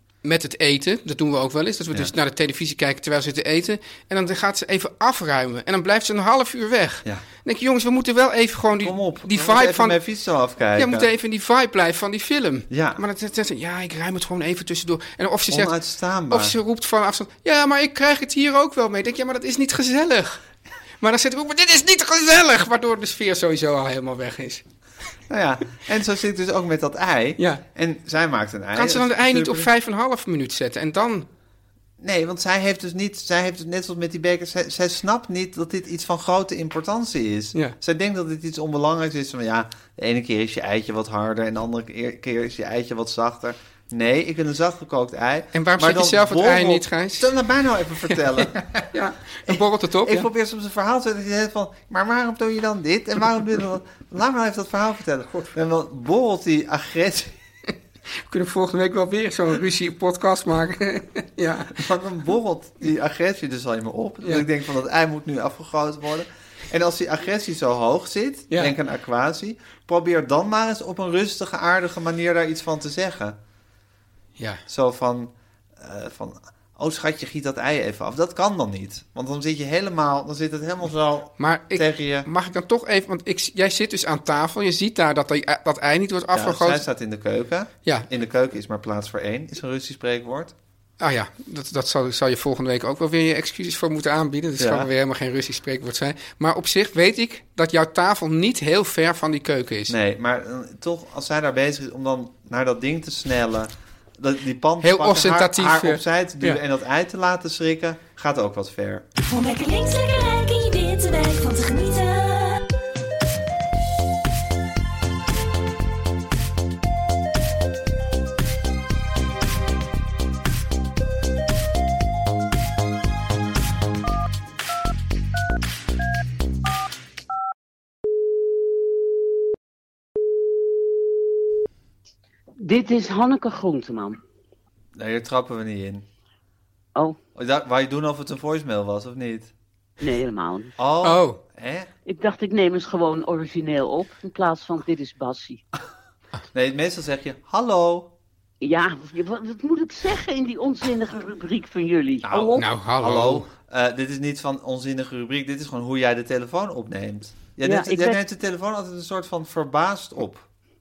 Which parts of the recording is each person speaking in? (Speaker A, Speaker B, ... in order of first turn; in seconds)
Speaker A: 0.2-10.0, 10.8-15.7, 16.3-20.4, 21.0-24.6, 27.4-27.6, 28.7-31.3, 45.5-47.3, 48.1-50.3, 58.2-61.8, 68.5-68.7, 74.4-74.6, 81.4-86.8, 91.0-99.9, 104.8-106.6, 141.0-141.4, 152.6-153.5
Speaker B: 8.8-11.1, 12.7-13.0, 15.5-16.6, 25.3-29.7, 32.0-48.9, 49.4-57.3, 61.7-73.4, 74.7-82.3, 86.3-90.5, 94.6-94.9, 99.9-109.1, 134.9-136.0, 137.3-139.5, 140.8-141.9, 146.5-148.1, 152.2-160.5
Speaker C: 109.2-112.7
Speaker D: 132.6-134.2, 140.0-140.7, 142.1-145.6, 148.6-152.7, 157.6-158.2